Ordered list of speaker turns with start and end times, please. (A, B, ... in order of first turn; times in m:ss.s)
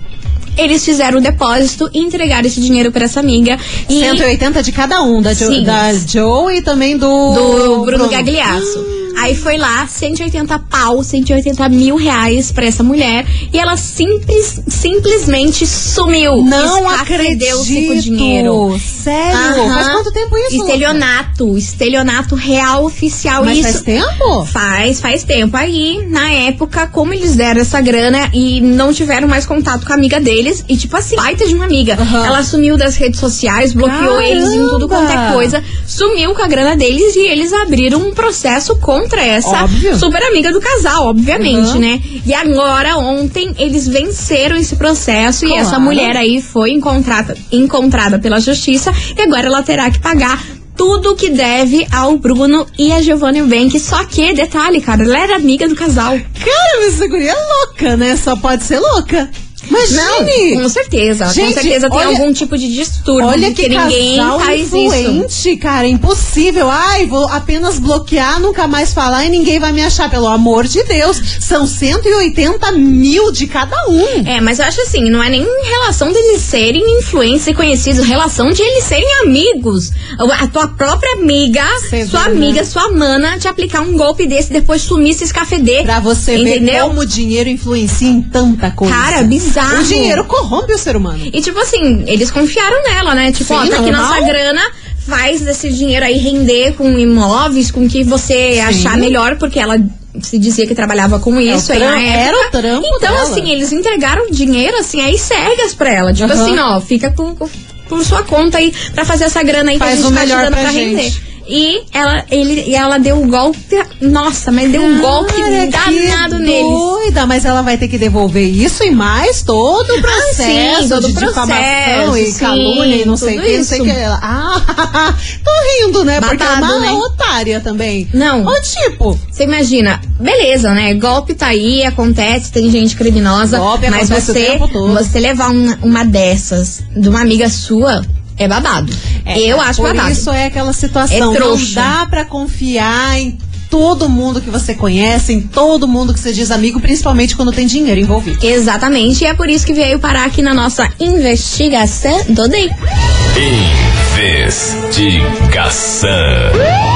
0:00.6-0:04.2 A
0:03.9-0:09.4 B
0:05.3-0:06.0 A
0:07.3-0:18.6 A
0:16.4-0:21.0 B
0:19.3-0:23.8 A
0:23.4-0:24.5 B
0:24.4-0:56.2 A
0:32.0-0:32.4 B
0:33.8-0:35.5 B
0:39.4-0:40.0 B
0:41.3-0:41.8 B
0:45.4-0:46.1 B
0:56.4-1:00.6 B
0:59.9-1:05.2 A
1:01.3-1:02.2 B
1:03.2-1:14.3 B
1:14.2-1:26.9 A
1:21.8-1:22.6 B
1:25.8-1:31.3 B
1:28.8-1:30.2 A
1:31.3-1:56.9 A
1:33.4-1:34.4 B
1:38.6-1:39.1 B
1:41.5-1:43.5 B
1:46.2-1:46.6 B
1:49.8-1:51.2 B
1:54.7-2:09.2 B
2:00.0-2:04.0 A
2:06.2-2:07.0 A
2:08.1-2:08.6 A
2:09.3-2:20.3 A
2:13.5-2:15.1 B
2:19.2-2:28.4 B
2:21.1-2:21.9 A
2:28.4-2:32.7 A
2:33.3-2:36.6 C